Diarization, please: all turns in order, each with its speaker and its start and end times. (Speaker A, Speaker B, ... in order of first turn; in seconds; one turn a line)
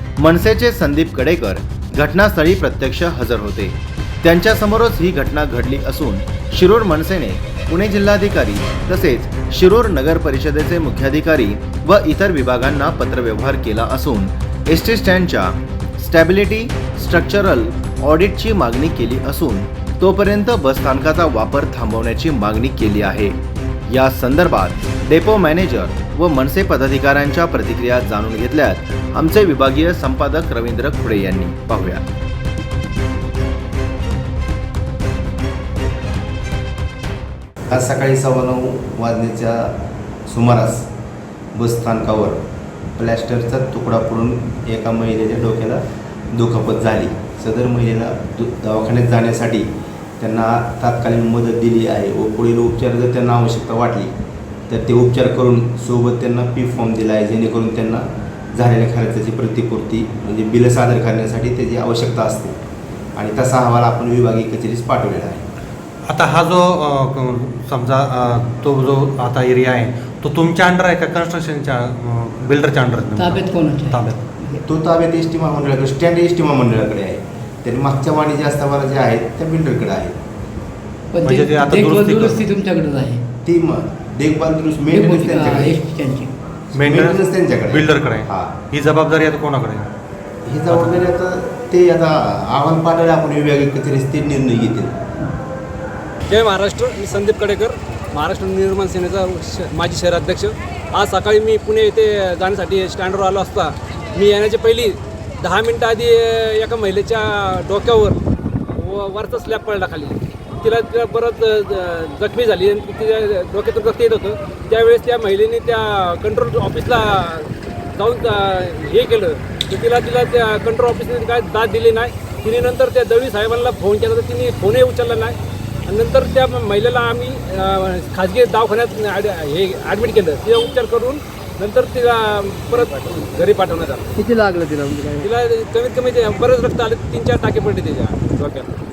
Speaker A: 0.2-32.0
Speaker B: 37.7-40.9
Speaker B: 41.5-42.4
Speaker B: 43.0-49.7
Speaker B: 50.2-54.1
Speaker B: 54.7-62.6
Speaker B: 63.1-65.5
Speaker C: 66.1-74.3
Speaker D: 73.2-74.0
Speaker B: 74.7-80.2
Speaker D: 81.2-83.2
Speaker C: 81.2-82.5
Speaker B: 83.4-85.8
Speaker D: 84.9-86.3
Speaker B: 86.8-88.6
Speaker C: 86.8-89.9
Speaker B: 90.5-95.0
Speaker C: 90.7-91.0
Speaker E: 96.3-108.2
Speaker E: 108.8-134.2
Speaker D: 134.2-135.3
Speaker E: 135.2-138.7